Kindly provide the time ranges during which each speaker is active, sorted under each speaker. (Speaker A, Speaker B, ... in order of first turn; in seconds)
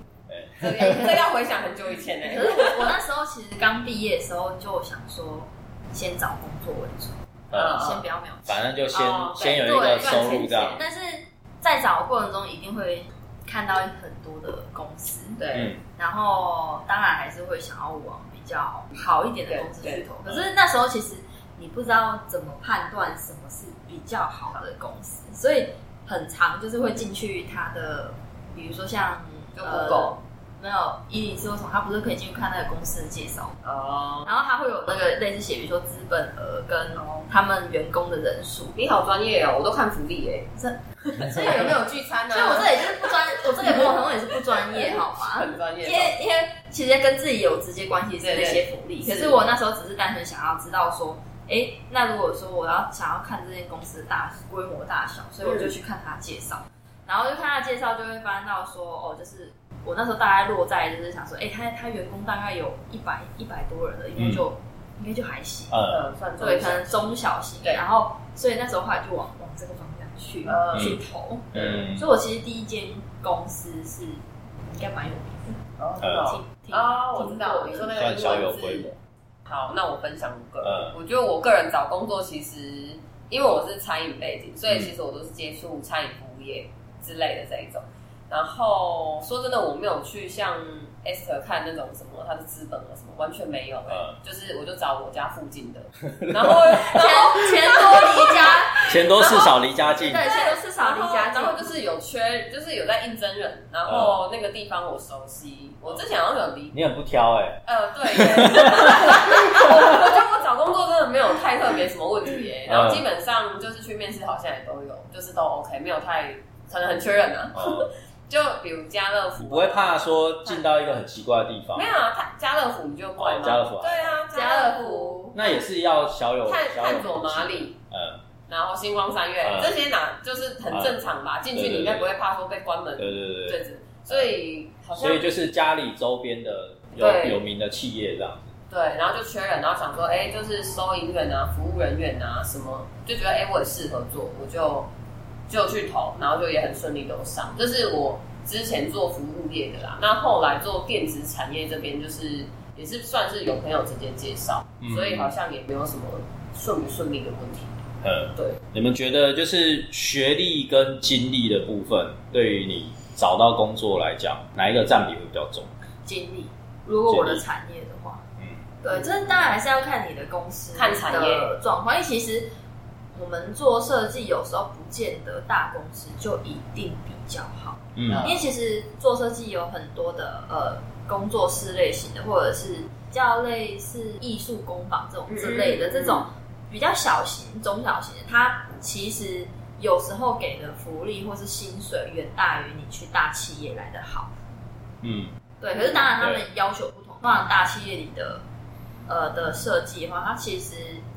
Speaker A: 0.3-1.1, 7.5-7.8, 8.5-10.8, 15.5-15.8, 20.2-20.5, 64.2-64.4, 65.7-66.1, 70.7-71.0, 71.5-72.1, 76.0-76.3, 78.0-79.0, 80.6-81.0, 93.9-94.2, 96.1-96.9, 98.9-100.2, 103.8-104.2, 106.7-110.1, 112.7-113.0, 117.5-117.9, 119.4-122.0, 123.2-124.2, 125.3-128.2, 129.4-129.8, 130.7-131.0, 131.5-132.1, 133.0-134.3, 134.9-138.5, 154.8-155.3, 158.0-165.7, 167.1-167.4, 168.4-168.7, 177.9-178.3, 195.0-195.3, 196.2-196.4
Speaker B: 0.6-2.9, 7.5-8.1, 8.9-10.8, 15.4-15.7, 19.5-20.1, 29.6-30.1, 33.6-34.3, 37.0-37.3, 38.8-40.5, 41.0-46.2, 48.2-49.4, 55.4-55.7, 65.9-67.1, 70.5-71.0, 75.8-78.9, 79.5-99.4, 100.2-106.7, 107.7-120.7, 121.7-125.3, 126.5-127.8, 128.5-135.3, 136.9-137.4, 138.7-144.9, 145.5-157.8, 168.9-169.5, 170.7-171.5, 178.1-178.5, 185.3-186.3, 195.7-196.1
Speaker C: 2.3-8.6, 9.6-33.6, 34.2-38.8, 40.6-65.8, 66.4-75.6, 76.2-77.9, 96.8-101.6, 124.3-125.3, 166.0-168.2, 168.8-172.5, 173.1-194.3, 195.6-198.4, 199.1-201.0